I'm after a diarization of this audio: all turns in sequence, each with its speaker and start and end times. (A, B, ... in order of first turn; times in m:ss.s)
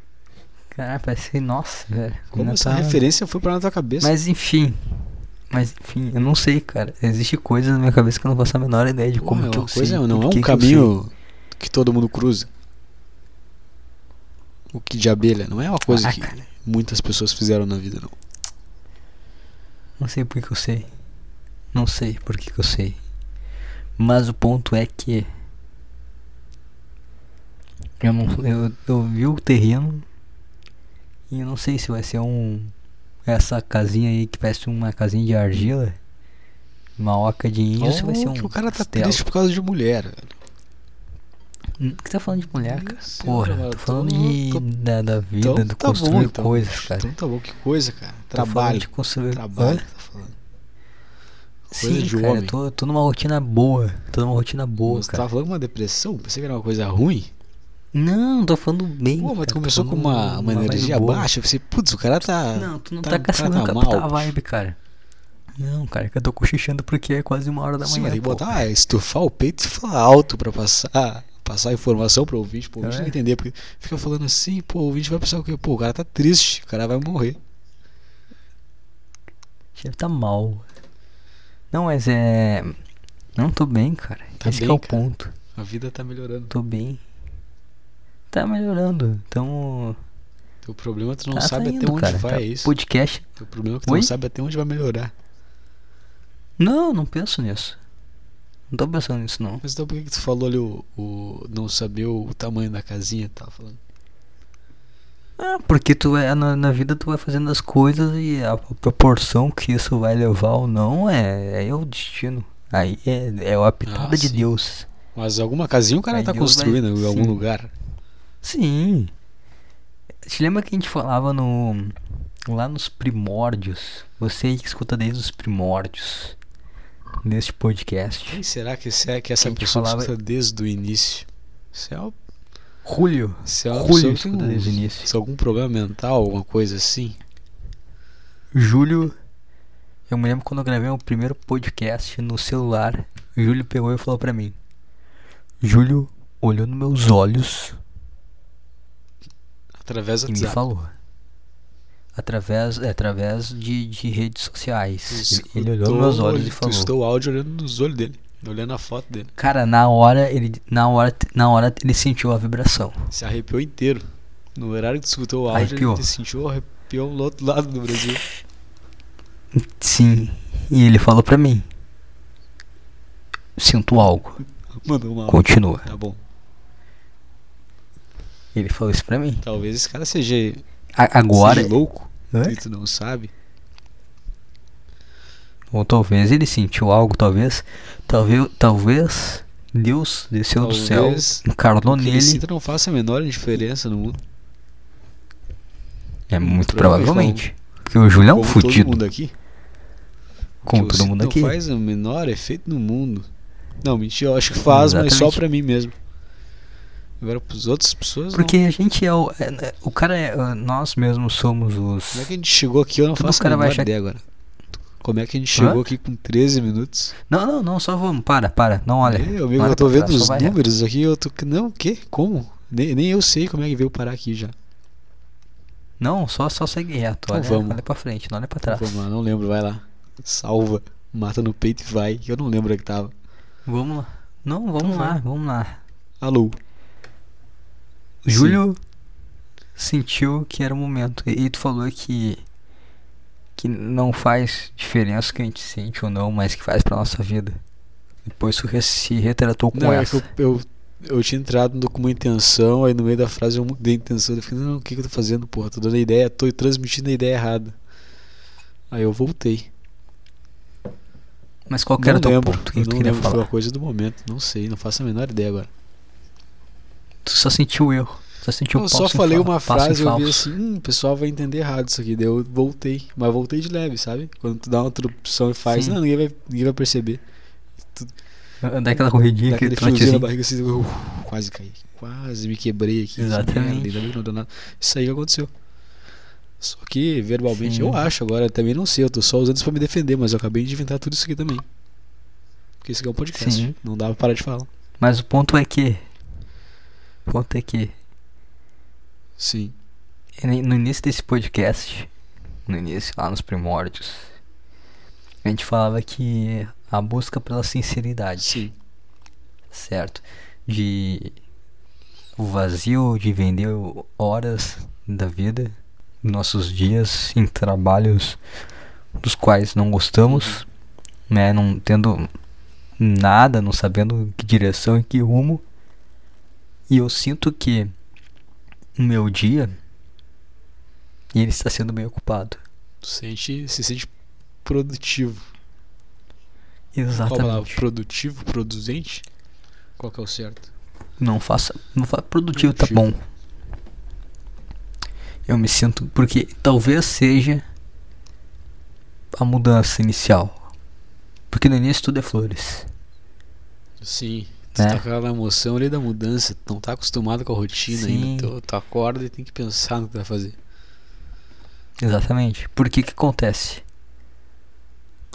0:00.7-0:03.0 A
0:02.3-0:04.1 B
0:04.0-0:10.9 A
0:09.2-0:12.5 B
0:14.7-0:18.2 B
0:15.9-0:16.4 A
0:20.0-0:20.9 A
0:21.7-0:23.0 A
0:24.0-0:25.3 A
0:28.0-0:30.0 A
0:31.3-0:32.7 A
0:33.2-0:36.0 A
0:37.0-0:39.2 A
0:37.8-0:40.3 B
0:41.8-0:47.1 A
0:42.5-0:44.6 B
0:45.4-0:50.4 B
0:48.4-0:49.8 A
0:51.7-0:52.6 B
0:51.7-0:55.2 A
0:54.8-0:57.3 B
0:57.9-1:01.3 A
0:59.2-1:04.3 B
1:02.5-1:04.8 A
1:05.6-1:08.6 A
1:07.8-1:17.4 B
1:12.8-1:13.1 A
1:19.8-1:20.6 A
1:21.7-1:22.8 A
1:23.4-1:25.3 A
1:24.4-1:26.5 B
1:26.5-1:27.0 A
1:28.3-1:30.0 A
1:30.6-1:32.7 B
1:31.3-1:33.3 A
1:33.4-1:35.1 B
1:33.8-1:34.1 A
1:36.6-1:37.8 A
1:38.7-1:39.6 A
1:39.6-1:43.8 B
1:45.4-1:54.9 A
1:53.8-1:54.5 B
1:55.1-1:57.7 B
1:56.1-1:57.4 A
1:58.4-1:59.1 A
2:00.2-2:06.4 A
2:07.2-2:08.4 A
2:08.3-2:12.1 B
2:09.4-2:10.1 A
2:12.8-2:15.1 A
2:13.4-2:17.2 B
2:18.5-2:19.2 A
2:20.1-2:24.6 A
2:25.6-2:27.8 A
2:29.8-2:30.6 B
2:30.3-2:30.9 A
2:32.1-2:36.9 A
2:35.1-2:39.3 B
2:39.4-2:43.1 A
2:43.1-2:48.2 B
2:45.5-2:46.1 A
2:49.5-2:51.6 A
2:53.6-2:54.4 A
2:54.8-2:56.2 B
2:55.3-2:55.9 A
2:58.5-2:59.4 A
2:59.4-3:00.6 B
3:01.0-3:01.7 A
3:01.3-3:03.3 B
3:02.3-3:02.6 A
3:05.7-3:12.4 A
3:10.6-3:14.2 B
3:16.3-3:19.0 A
3:16.4-3:17.4 B
3:18.2-3:19.3 B
3:20.6-3:23.3 B
3:20.6-3:21.5 A
3:23.8-3:25.9 B
3:24.6-3:25.4 A
3:27.2-3:28.6 B
3:28.3-3:32.3 A
3:32.1-3:34.2 B
3:33.2-3:33.9 A
3:35.0-3:37.1 B
3:35.5-3:35.8 A
3:37.3-3:40.6 A
3:39.0-3:44.5 B
3:46.0-3:49.0 A
3:47.3-3:47.8 B
3:48.6-3:53.1 B
3:53.6-3:55.8 A
3:54.8-3:55.2 B
3:56.2-3:56.6 B
3:58.2-3:58.8 A
3:58.3-3:58.6 B
3:59.8-4:02.4 A
4:03.6-4:07.6 A
4:08.2-4:10.3 A
4:09.7-4:17.8 B
4:18.9-4:19.7 B
4:21.7-4:23.5 A
4:22.0-4:25.7 B
4:27.2-4:30.5 A
4:28.7-4:37.2 B
4:35.7-4:36.0 A
4:38.6-4:40.3 A
4:39.5-4:45.5 B
4:43.2-4:44.1 A
4:46.6-4:51.6 B
4:47.5-4:48.0 A
4:52.8-4:54.7 B
4:53.3-4:53.8 A
4:55.0-4:56.0 A
4:57.2-4:57.9 A
4:59.4-4:59.7 B
5:00.4-5:02.1 A
5:02.7-5:04.3 A
5:05.4-5:08.6 A
5:08.4-5:08.7 B
5:09.7-5:11.4 A
5:12.4-5:18.4 A
5:19.2-5:20.6 A
5:20.2-5:20.6 B
5:21.3-5:22.3 A
5:23.0-5:25.6 A
5:26.9-5:27.9 A
5:29.0-5:29.8 A
5:31.3-5:32.6 A
5:33.0-5:34.1 B
5:34.6-5:35.5 B
5:36.9-5:37.8 A
5:37.1-5:39.2 B
5:40.0-5:40.7 B
5:41.2-5:43.2 A
5:42.5-5:43.0 B
5:45.5-5:47.6 A
5:49.3-5:50.6 A
5:51.5-5:52.9 A
5:54.0-6:00.6 B
5:54.8-5:55.0 A
5:57.9-5:58.5 A
6:02.0-6:03.8 A